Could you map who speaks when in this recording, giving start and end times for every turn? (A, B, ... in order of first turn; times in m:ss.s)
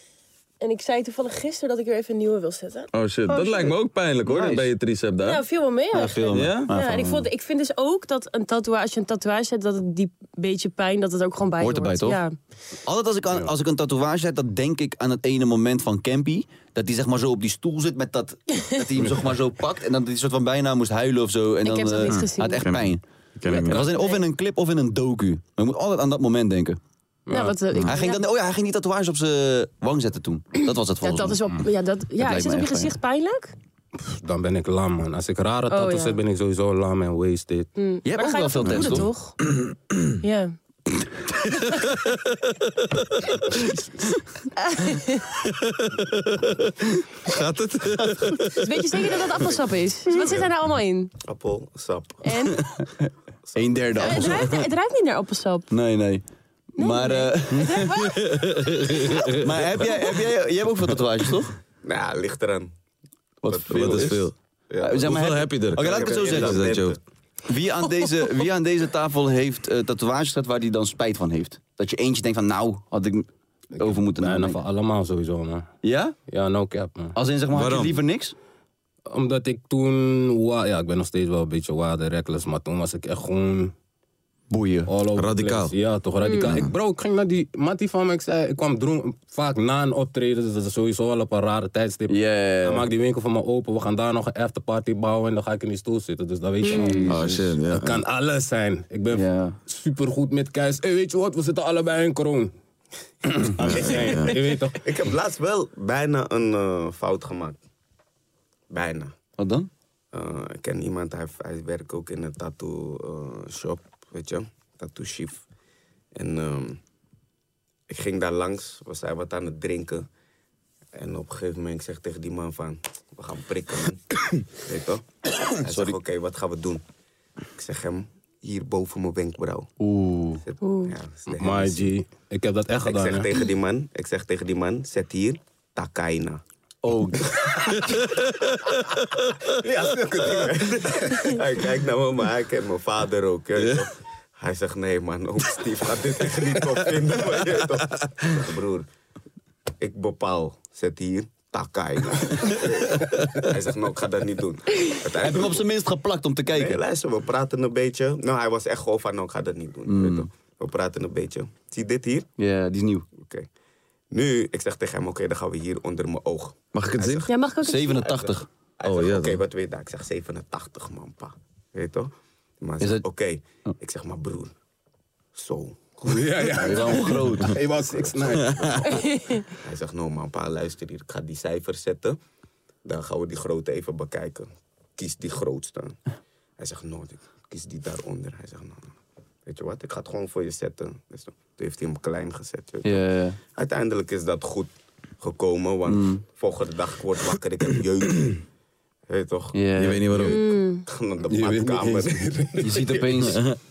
0:00.6-0:03.8 A
0:02.9-0:05.4 B
0:04.2-0:04.7 C
0:05.2-0:12.4 A
0:05.9-0:07.3 C
0:06.3-0:06.7 B
0:11.6-0:12.2 C
0:12.9-0:26.8 C
0:21.6-0:22.7 A
0:22.6-0:23.8 B
0:23.5-0:24.2 A
0:27.3-0:27.6 D
0:27.3-0:28.2 A
0:27.8-0:31.4 C
0:30.6-0:33.5 A
0:32.2-0:33.0 C
0:34.0-0:37.7 D
0:35.7-0:36.2 A
0:37.8-0:39.4 A
0:38.0-0:39.1 C
0:38.7-0:40.1 B
0:40.2-0:40.6 A
0:41.5-0:42.0 A
0:41.7-0:42.2 B
0:43.5-0:43.8 C
0:44.6-0:45.3 A
0:45.3-0:49.1 B
0:48.6-0:51.1 A
0:51.2-0:52.2 E
0:52.2-0:52.9 A
0:53.0-0:54.7 C
0:54.0-0:55.7 A
0:55.7-0:56.2 C
0:56.8-0:58.2 C
0:56.8-0:58.2 A
0:58.1-0:59.6 B
0:59.4-1:01.5 C
1:01.8-1:02.7 E
1:03.4-1:06.8 C
1:03.5-1:05.2 E
1:03.7-1:04.3 B
1:05.0-1:07.0 B
1:05.8-1:07.0 E
1:07.5-1:13.3 C
1:13.8-1:15.7 D
1:13.8-1:14.6 C
1:15.8-1:16.2 C
1:16.3-1:17.2 D
1:17.2-1:18.4 C
1:17.5-1:18.0 B
1:19.1-1:23.7 D
1:24.5-1:24.9 C
1:24.9-1:42.5 D
1:25.2-1:25.7 B
1:26.2-1:26.5 A
1:32.1-1:32.9 C
1:36.6-1:37.0 A
1:36.7-1:37.6 C
1:37.1-1:38.0 B
1:39.1-1:39.6 C
1:43.3-1:44.8 D
1:43.6-1:47.6 E
1:43.8-1:44.4 B
1:48.7-1:49.1 E
1:49.4-1:49.7 C
1:50.1-1:55.4 E
1:56.2-1:56.8 E
1:57.9-2:00.1 E
2:01.0-2:06.8 E
2:07.6-2:09.7 E
2:09.8-2:10.4 C
2:10.4-2:11.9 E
2:10.6-2:11.0 A
2:11.3-2:13.3 D
2:12.8-2:16.4 E
2:16.8-2:17.4 C
2:17.3-2:18.2 E
2:17.8-2:19.0 B
2:19.4-2:28.9 E
2:29.8-2:35.6 E
2:35.1-2:36.8 C
2:36.5-2:42.3 E
2:39.9-2:40.3 C
2:42.4-2:43.1 C
2:43.2-2:43.5 E
2:44.1-2:47.3 E
2:46.7-2:47.3 B
2:47.3-2:48.1 A
2:47.6-2:48.5 C
2:47.9-2:54.5 E
2:48.8-2:49.4 B
2:52.8-2:53.0 C
2:55.4-3:02.2 E
2:56.0-2:59.1 D
2:56.6-2:57.6 C
2:58.8-2:59.4 A
3:02.8-3:06.0 E
3:06.6-3:08.9 E
3:09.5-3:18.4 E
3:12.8-3:13.4 C
3:15.9-3:16.2 C
3:19.1-3:19.6 E
3:19.5-3:20.4 C
3:19.8-3:20.4 B
3:20.2-3:20.8 A
3:20.9-3:23.4 E
3:21.3-3:22.7 D
3:22.6-3:23.6 C